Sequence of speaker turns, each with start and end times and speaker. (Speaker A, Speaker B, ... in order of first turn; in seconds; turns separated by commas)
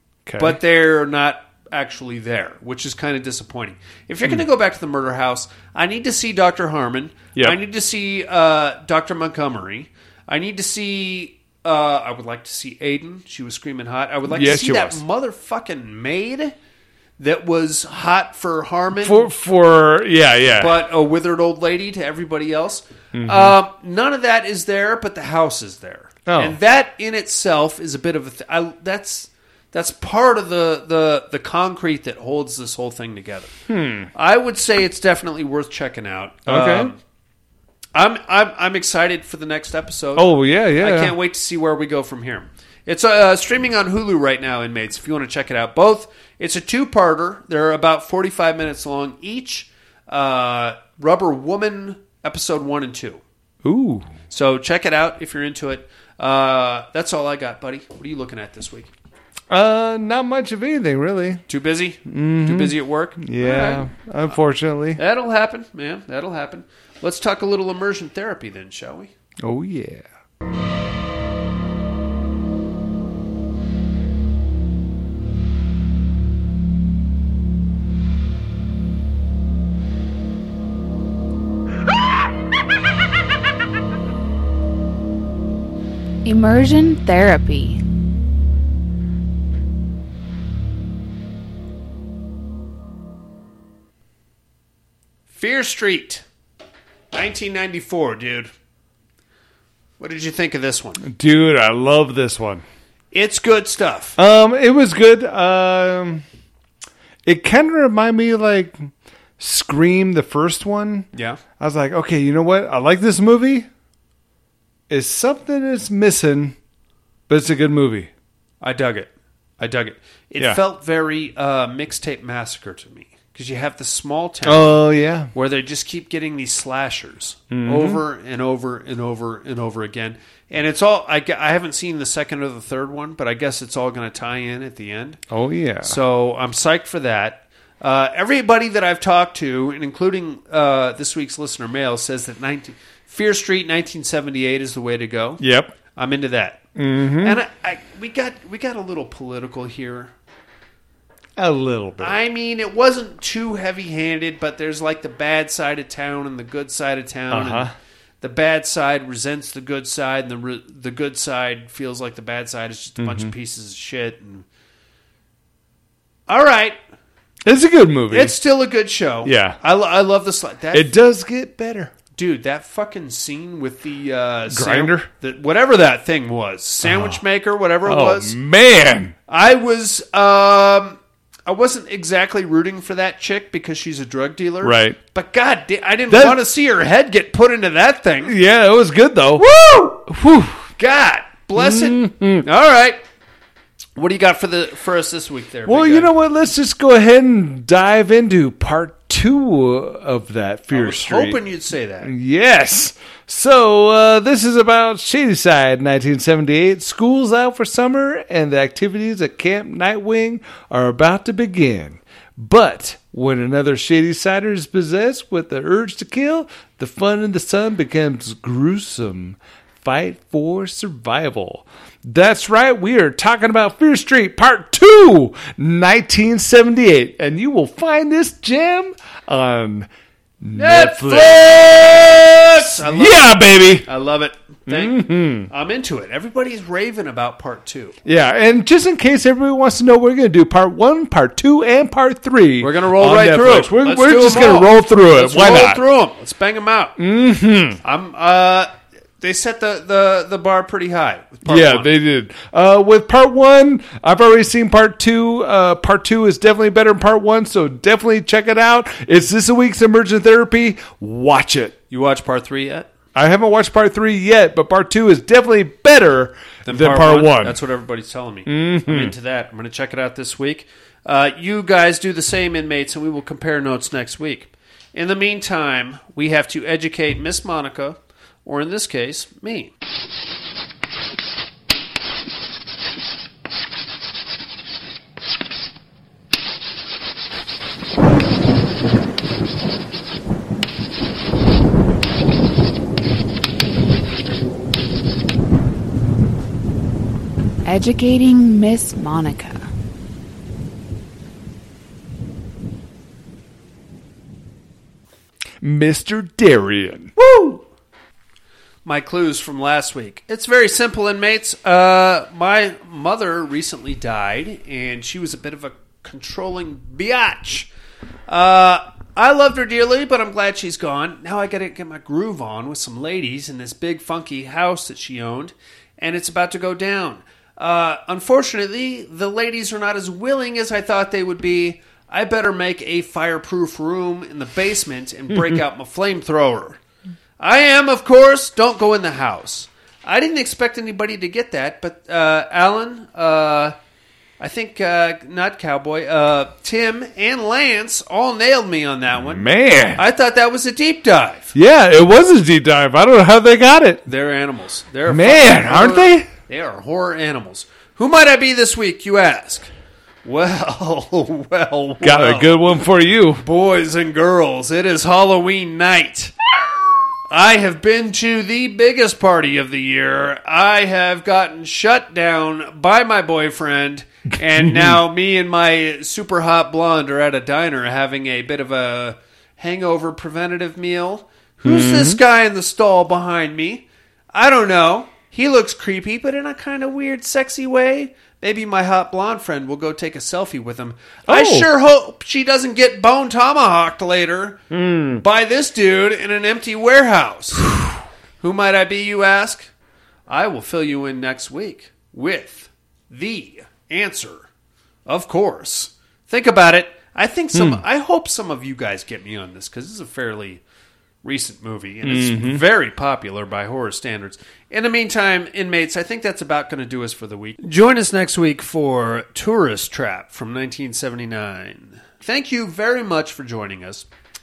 Speaker A: 0.3-0.6, Speaker B: 0.4-16.6, Speaker A: 14.3-15.0, Speaker B: 17.2-19.3, Speaker A: 18.9-20.8, Speaker B: 20.5-33.6, Speaker A: 23.1-23.6, Speaker A: 26.3-26.6, Speaker A: 33.7-34.1, Speaker B: 34.1-37.0, Speaker A: 36.5-36.9, Speaker B: 37.9-53.2, Speaker A: 40.2-41.1, Speaker A: 53.6-54.1, Speaker B: 54.3-58.9, Speaker A: 59.5-61.5, Speaker B: 61.5-64.4, Speaker A: 62.1-65.0, Speaker B: 65.0-69.1, Speaker A: 69.4-70.1, Speaker C: 86.2-87.8, Speaker B: 95.3-96.2, Speaker B: 97.1-98.5, Speaker B: 100.0-101.0, Speaker A: 101.0-102.6, Speaker B: 103.1-104.2, Speaker A: 104.2-106.2, Speaker A: 107.3-111.1, Speaker B: 111.1-111.4, Speaker A: 111.6-113.7, Speaker A: 114.9-116.6, Speaker A: 117.3-118.1, Speaker B: 118.6-135.2, Speaker A: 124.5-125.3, Speaker A: 127.5-128.0, Speaker A: 135.3-136.0, Speaker B: 135.8-145.4, Speaker A: 145.4-145.7, Speaker B: 145.9-146.7, Speaker A: 146.8-147.4, Speaker B: 147.2-150.1, Speaker A: 151.4-152.2, Speaker B: 152.0-164.4, Speaker A: 157.3-157.7, Speaker A: 163.0-163.3, Speaker B: 166.3-166.8, Speaker A: 167.4-168.4, Speaker B: 168.1-170.9, Speaker A: 169.2-169.6, Speaker A: 170.7-171.9, Speaker B: 172.2-178.4, Speaker A: 174.5-175.1, Speaker A: 176.8-177.2, Speaker A: 177.8-179.2, Speaker B: 179.3-188.3, Speaker A: 184.6-185.0, Speaker A: 186.1-186.4, Speaker A: 188.2-189.5, Speaker B: 189.4-190.0, Speaker A: 190.0-190.7, Speaker B: 190.8-193.0, Speaker A: 191.6-192.5, Speaker B: 194.0-196.1, Speaker A: 195.7-201.4, Speaker B: 200.7-202.1, Speaker A: 202.0-229.9, Speaker A: 230.4-233.9, Speaker B: 230.6-238.0, Speaker A: 234.7-235.5, Speaker A: 238.1-245.8, Speaker B: 242.6-247.0, Speaker A: 247.0-247.8, Speaker B: 247.8-251.9, Speaker A: 251.5-261.8, Speaker B: 261.9-262.9, Speaker A: 263.1-267.6, Speaker B: 266.6-279.7, Speaker A: 268.5-269.1, Speaker C: 297.7-299.7, Speaker A: 305.6-307.1, Speaker B: 307.2-307.6, Speaker B: 308.9-317.7, Speaker B: 318.3-336.8, Speaker B: 337.4-343.8, Speaker B: 344.4-351.5, Speaker A: 349.1-350.0, Speaker A: 351.5-354.1, Speaker B: 354.1-359.7, Speaker A: 355.1-356.3, Speaker B: 360.2-362.8, Speaker A: 362.0-363.4, Speaker B: 363.4-366.3, Speaker B: 367.3-394.6, Speaker A: 374.5-375.0, Speaker A: 381.6-382.2, Speaker A: 391.3-391.7, Speaker A: 394.7-395.2, Speaker B: 395.2-397.7, Speaker B: 398.4-399.7, Speaker B: 400.3-404.5, Speaker B: 405.1-410.6, Speaker A: 407.5-407.8, Speaker B: 411.2-424.1, Speaker A: 412.0-412.6